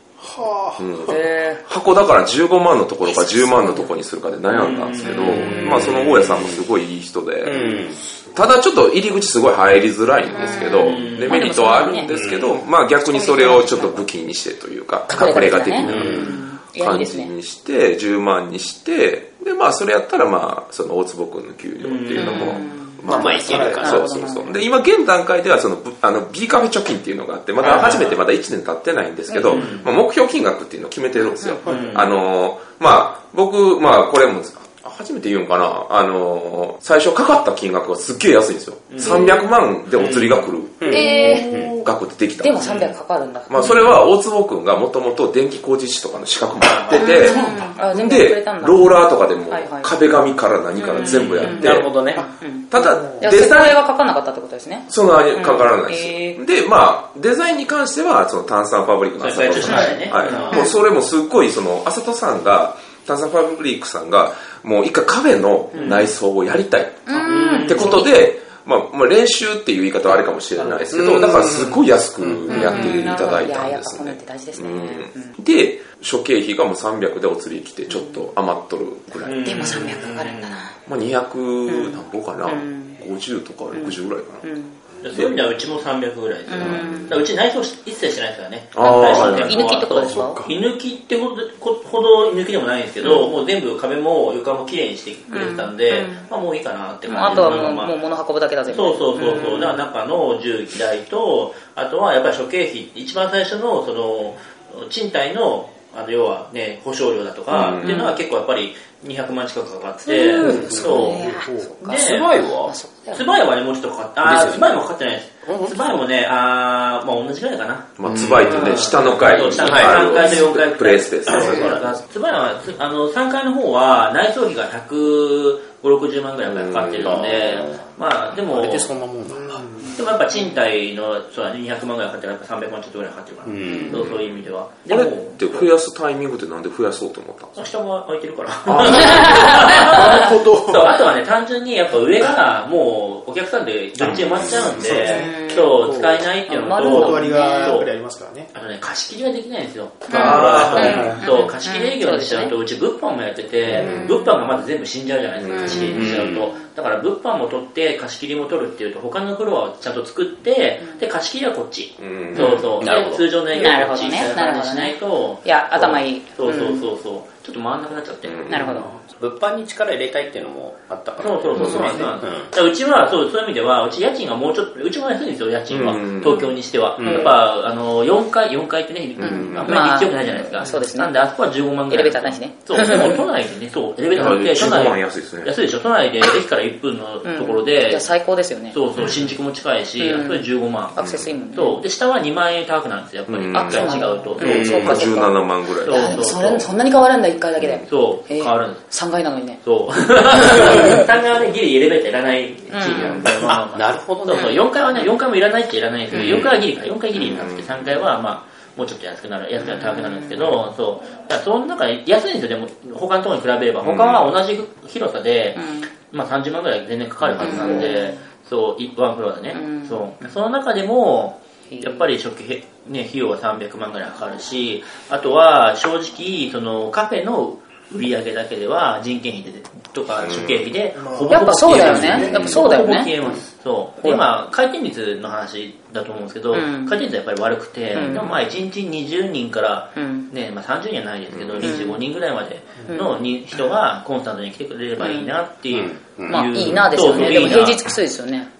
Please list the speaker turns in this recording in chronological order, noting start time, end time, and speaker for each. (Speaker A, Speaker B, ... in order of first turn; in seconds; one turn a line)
Speaker A: 0.2-1.1
Speaker B: 0.8-7.7
Speaker C: 1.1-1.6
Speaker C: 3.1-3.7
Speaker D: 4.5-5.6
Speaker E: 5.2-6.5
Speaker E: 7.4-8.0
Speaker B: 8.3-42.9
Speaker C: 10.3-12.1
Speaker D: 10.6-11.4
Speaker E: 12.1-12.4
Speaker C: 13.0-14.1
Speaker C: 15.1-17.3
Speaker D: 15.8-16.1
Speaker E: 15.8-16.3
Speaker D: 21.8-22.6
Speaker C: 22.1-24.5
Speaker E: 23.1-24.4
Speaker A: 23.4-23.9
Speaker D: 27.6-28.2
Speaker C: 29.3-29.6
Speaker D: 29.4-29.9
Speaker C: 31.2-31.6
Speaker A: 31.6-32.0
Speaker D: 31.6-32.0
Speaker D: 38.9-39.2
Speaker C: 39.0-39.5
Speaker E: 40.8-41.7
Speaker C: 40.9-41.5
Speaker A: 40.9-41.8
Speaker C: 42.4-43.6
Speaker D: 42.6-42.9
Speaker B: 43.5-52.1
Speaker D: 46.6-47.5
Speaker C: 46.9-49.9
Speaker A: 47.3-47.7
Speaker C: 50.8-56.4
Speaker D: 51.0-51.5
Speaker E: 51.6-52.2
Speaker B: 52.7-53.8
Speaker A: 52.7-53.3
Speaker B: 54.9-79.8
Speaker D: 59.2-60.6
Speaker C: 59.6-60.7
Speaker E: 60.2-60.5
Speaker D: 65.7-66.1
Speaker C: 67.1-68.1
Speaker D: 67.2-68.0
Speaker E: 70.9-71.8
Speaker C: 72.5-75.4
Speaker C: 77.9-78.3
Speaker D: 79.2-80.6
Speaker C: 79.4-80.8
Speaker B: 80.9-84.4
Speaker C: 81.7-83.0
Speaker C: 83.7-84.8
Speaker D: 85.0-97.9
Speaker C: 86.5-87.2
Speaker B: 86.6-86.9
Speaker B: 88.8-89.6
Speaker C: 88.8-90.4
Speaker A: 90.0-90.6
Speaker C: 93.0-93.3
Speaker C: 95.3-96.2
Speaker C: 97.1-99.8
Speaker D: 98.7-112.3
Speaker B: 107.5-108.0
Speaker C: 107.8-108.2
Speaker C: 110.1-113.3
Speaker A: 110.4-111.7
Speaker E: 111.9-112.7
Speaker D: 113.1-128.9
Speaker E: 114.2-114.8
Speaker E: 115.5-116.0
Speaker B: 118.0-121.9
Speaker E: 118.1-118.7
Speaker E: 119.3-120.2
Speaker E: 121.3-121.8
Speaker B: 126.5-127.2
Speaker E: 127.0-127.9
Speaker E: 128.5-129.7
Speaker A: 129.4-130.0
Speaker D: 129.9-135.7
Speaker E: 133.4-134.1
Speaker B: 133.9-137.6
Speaker D: 137.6-147.9
Speaker A: 138.7-141.0
Speaker C: 138.9-140.3
Speaker A: 144.0-148.5
Speaker C: 145.0-145.8
Speaker C: 146.5-147.8
Speaker D: 148.5-168.5
Speaker C: 150.1-152.5
Speaker B: 150.1-151.1
Speaker A: 150.7-151.2
Speaker B: 153.8-154.1
Speaker C: 153.8-154.5
Speaker B: 155.4-156.1
Speaker C: 155.5-156.6
Speaker E: 155.9-156.5
Speaker B: 162.0-162.9
Speaker E: 162.8-163.3
Speaker C: 163.5-166.8
Speaker B: 168.2-168.9
Speaker C: 168.5-168.9
Speaker E: 169.0-172.5
Speaker D: 171.2-188.0
Speaker A: 171.7-172.1
Speaker B: 175.7-176.5
Speaker C: 176.2-177.3
Speaker E: 177.0-177.3
Speaker B: 179.2-179.7
Speaker C: 179.2-181.1
Speaker C: 181.9-183.2
Speaker B: 184.1-185.5
Speaker C: 187.2-188.8
Speaker D: 188.7-191.0
Speaker B: 189.0-189.3
Speaker C: 190.0-191.8
Speaker B: 191.0-191.3
Speaker D: 191.5-195.1
Speaker B: 193.3-196.4
Speaker C: 193.5-199.6
Speaker E: 194.4-195.0
Speaker D: 195.8-196.7
Speaker D: 197.9-198.9
Speaker D: 199.6-247.8
Speaker C: 200.3-201.0
Speaker C: 202.7-203.2
Speaker E: 203.2-204.6
Speaker C: 204.3-204.6
Speaker B: 207.2-207.9
Speaker C: 209.7-210.3
Speaker B: 213.8-214.3
Speaker C: 215.6-215.9
Speaker C: 217.4-218.1
Speaker C: 219.5-220.0
Speaker C: 221.7-222.1
Speaker B: 230.2-230.7
Speaker A: 231.0-232.6
Speaker C: 231.3-233.1
Speaker C: 236.5-237.0
Speaker C: 237.9-238.4
Speaker C: 240.0-240.3
Speaker B: 241.3-241.7
Speaker C: 241.6-242.0
Speaker C: 242.9-243.1
Speaker C: 245.0-245.3
Speaker E: 245.7-247.2
Speaker C: 246.3-248.5